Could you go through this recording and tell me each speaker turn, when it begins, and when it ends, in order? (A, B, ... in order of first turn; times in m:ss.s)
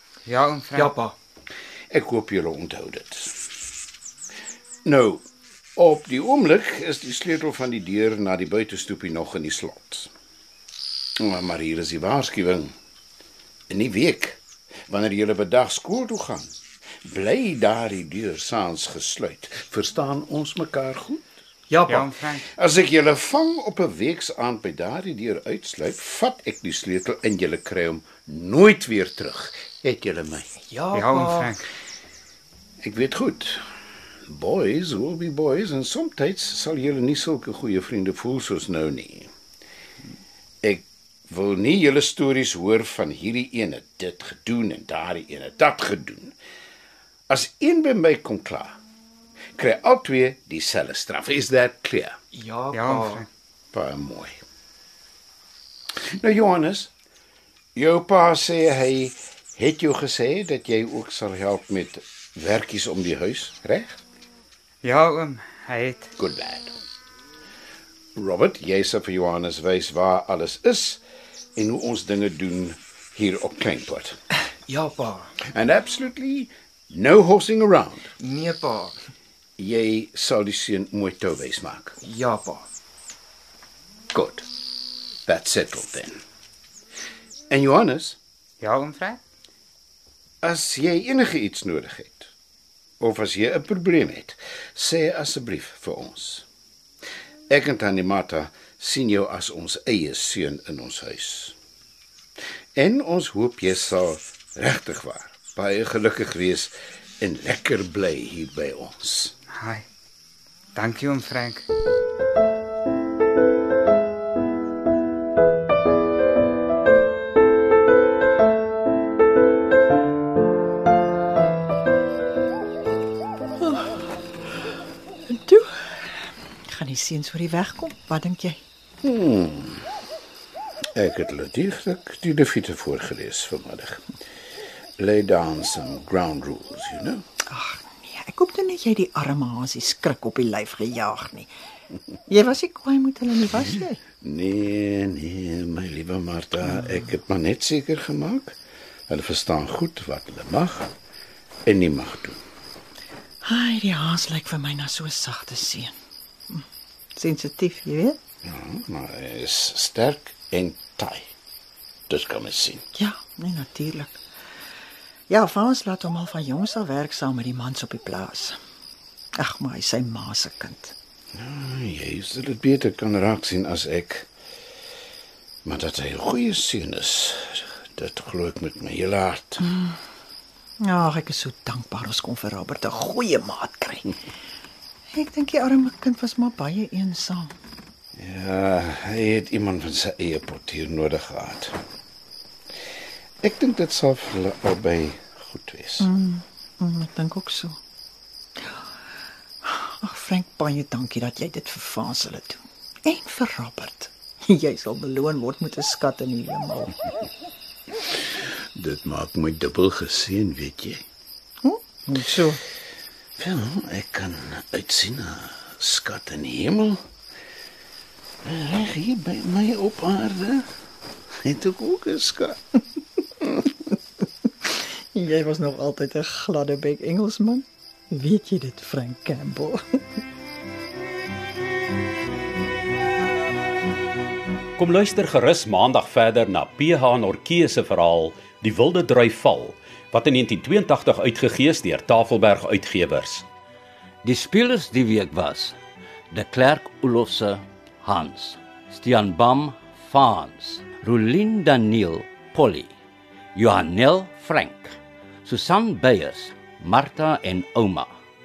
0:00.3-0:00.9 A
0:00.8-0:01.1 B
0:01.9-0:03.3 C
0:04.8-0:05.2 C
0:05.8-0:10.1 C
0:11.2-0:12.7 C
0:13.7-0:16.5 C
0:17.0-0:21.2 C
0:21.7-0:22.1 B
0:21.9-0:22.4 A
0:22.5-0:30.5 C
0:30.7-0:31.5 B
0:30.9-0:31.6 A
0:32.8-0:33.6 C
0:34.3-0:39.3 C
0:40.6-0:46.4 C
0:47.3-0:48.8 C
0:49.6-0:52.2 C
0:52.3-0:53.2 B
0:52.7-0:53.3 A
0:53.7-0:54.4 C
0:56.2-0:56.9 C
0:57.8-1:04.0 C
1:04.8-1:06.1 A
1:06.2-1:06.7 C
1:08.2-1:11.0 C
1:11.6-1:14.2 C
1:14.7-1:15.3 B
1:15.5-1:18.1 C
1:18.2-1:19.0 B
1:19.6-1:21.9 C
1:22.0-1:22.6 B
1:24.1-1:24.4 C
1:25.3-1:26.2 C
1:27.5-1:28.2 C
1:28.6-1:29.2 A
1:30.4-1:32.3 C
1:33.0-1:36.5 C
1:37.5-1:41.6 C
1:42.8-1:49.4 C
1:49.5-1:49.8 A
1:50.8-1:51.6 A
2:05.3-2:06.1 D
2:06.7-2:08.6 D
2:09.0-2:09.9 C
2:11.0-2:14.0 C
2:15.0-2:17.2 C
2:17.5-2:21.5 D
2:22.3-2:24.0 D
2:24.2-2:28.6 C
2:29.1-2:30.9 C
2:31.7-2:32.4 C
2:33.4-2:35.9 D
2:37.2-2:38.2 D
2:38.4-2:41.3 C
2:42.1-2:42.8 C
2:43.0-2:44.2 D
2:45.3-2:48.6 D
2:49.4-2:50.9 D
2:51.4-2:54.3 C
2:55.6-2:59.6 C
2:59.6-3:00.0 D
3:00.8-3:04.1 D
3:05.1-3:07.5 D
3:08.2-3:11.8 C
3:13.4-3:16.1 C
3:16.0-3:17.8 D
3:19.6-3:27.0 D
3:28.8-3:31.0 C
3:31.6-3:32.6 D
3:33.4-3:37.0 C
3:38.4-3:40.7 C
3:41.4-3:42.6 C
3:45.2-3:50.0 D
3:54.8-4:03.5 E
4:04.2-4:05.8 F
4:06.3-4:12.9 F
4:13.6-4:18.1 F